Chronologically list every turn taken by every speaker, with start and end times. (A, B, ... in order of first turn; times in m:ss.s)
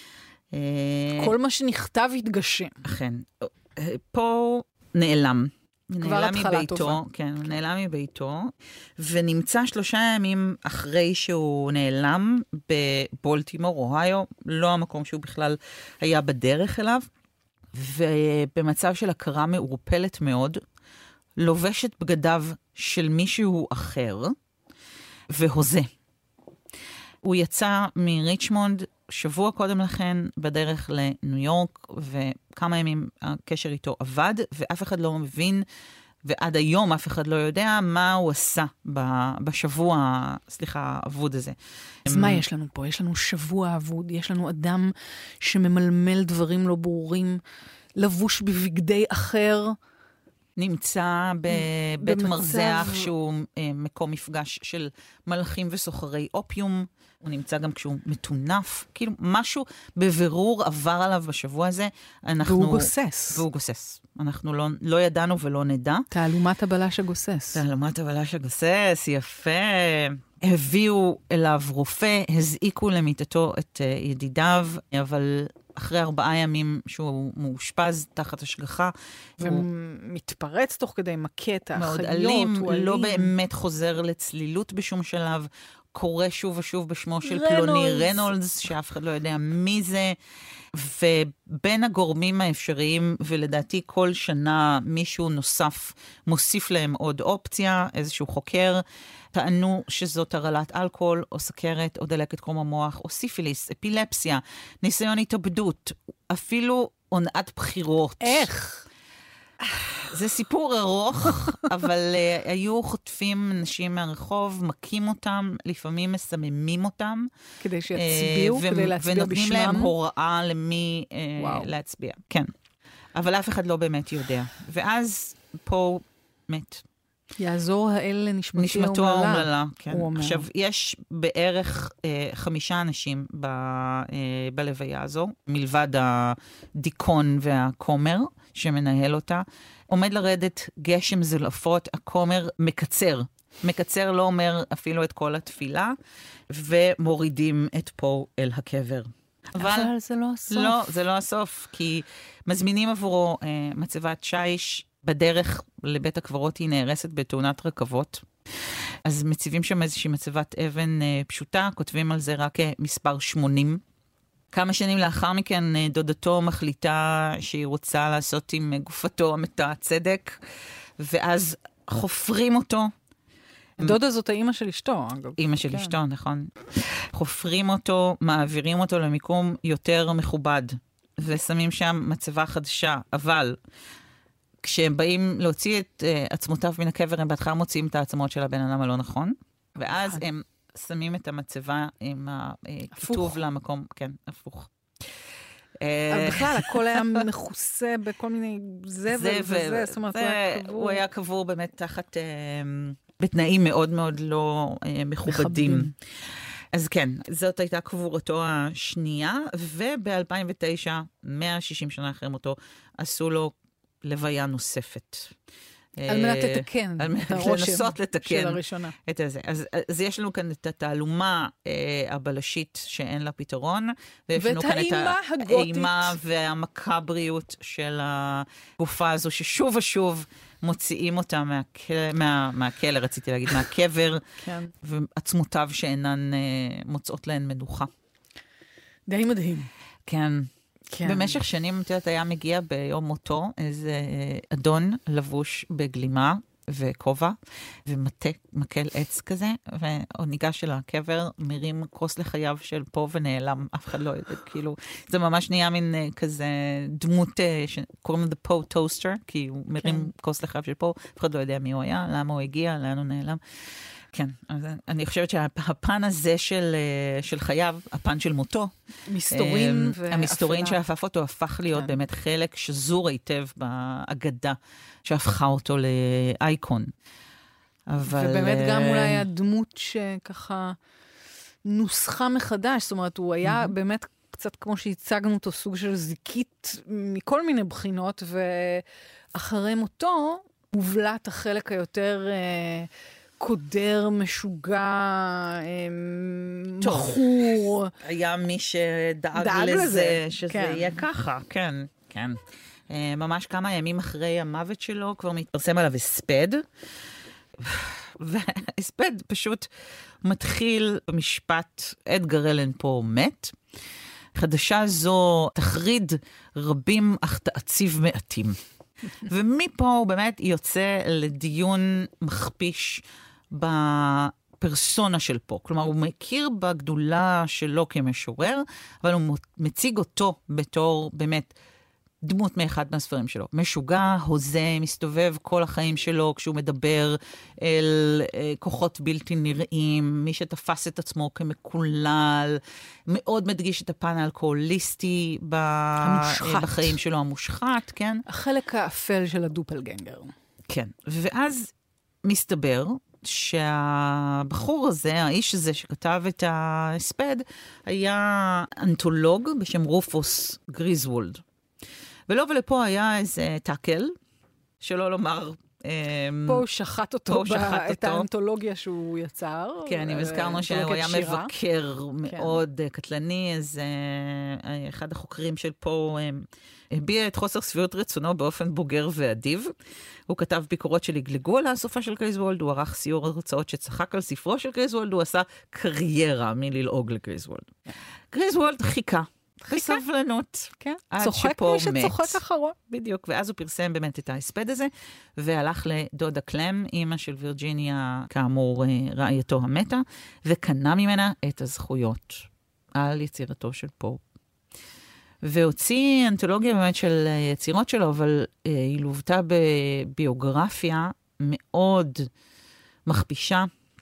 0:00.5-0:01.3 A
0:01.2-0:02.8 B
0:02.8-0:17.1 A
0:06.0-0:07.0 B
0:17.7-0:20.6 A
0:21.4-0:24.4 A
0:25.3-0:25.9 A
0:27.2-0:35.6 A
0:36.2-0:42.4 A
0:42.1-0:47.4 B
0:48.0-0:49.8 B
0:50.6-1:06.1 A
0:51.5-0:53.1 B
1:02.4-1:03.4 B
1:06.1-1:07.6 B
1:07.5-1:19.6 A
1:19.4-1:23.3 B
1:21.8-1:30.2 A
1:27.2-1:28.3 B
1:30.7-1:48.5 A
1:48.2-1:48.8 B
1:50.0-1:57.3 A
1:57.6-1:59.9 B
1:57.9-2:02.5 A
2:01.4-2:01.7 B
2:03.1-2:06.8 A
2:07.4-2:10.4 B
2:08.6-2:26.0 A
2:26.5-2:29.9 A
2:29.6-2:30.8 B
2:30.5-2:38.2 A
2:39.0-2:43.8 A
2:44.5-2:50.4 A
2:51.0-2:52.9 A
2:53.8-2:55.9 B
2:55.4-3:03.6 A
3:04.6-3:15.1 A
3:09.8-3:10.2 B
3:12.9-3:13.5 B
3:15.8-3:17.2 A
3:16.1-3:21.0 B
3:19.1-3:25.9 A
3:25.2-3:25.9 B
3:26.7-3:35.3 A
3:36.0-3:57.9 A
3:36.1-3:38.9 B
3:44.3-3:46.2 B
3:54.4-3:54.7 B
3:59.1-3:59.7 B
4:00.1-4:00.5 A
4:00.9-4:01.4 B
4:01.0-4:23.4 A
4:19.8-4:20.1 B
4:24.1-4:28.7 A
4:29.1-4:30.8 B
4:29.3-4:36.9 A
4:37.9-4:39.2 A
4:38.1-4:40.8 B
4:41.6-4:57.9 B
4:43.4-4:43.7 A
4:56.8-4:57.2 A
4:58.0-5:06.6 A
4:59.3-5:01.0 B
5:07.6-5:09.7 A
5:10.2-5:13.6 A
5:14.3-5:18.6 A
5:19.1-5:31.5 A
5:32.2-5:48.2 A
5:46.0-5:47.0 B
5:48.2-5:50.3 B
5:50.7-5:51.7 A
5:52.2-6:01.4 A
6:02.3-6:04.2 A
6:04.8-6:06.6 A
6:06.4-6:11.5 B
6:07.3-6:08.3 A
6:09.8-6:19.7 A
6:12.2-6:12.6 B
6:20.3-6:27.8 A
6:28.3-6:44.2 A
6:29.6-6:30.0 B
6:30.8-6:32.8 B
6:45.4-6:52.3 A
6:53.0-6:53.7 A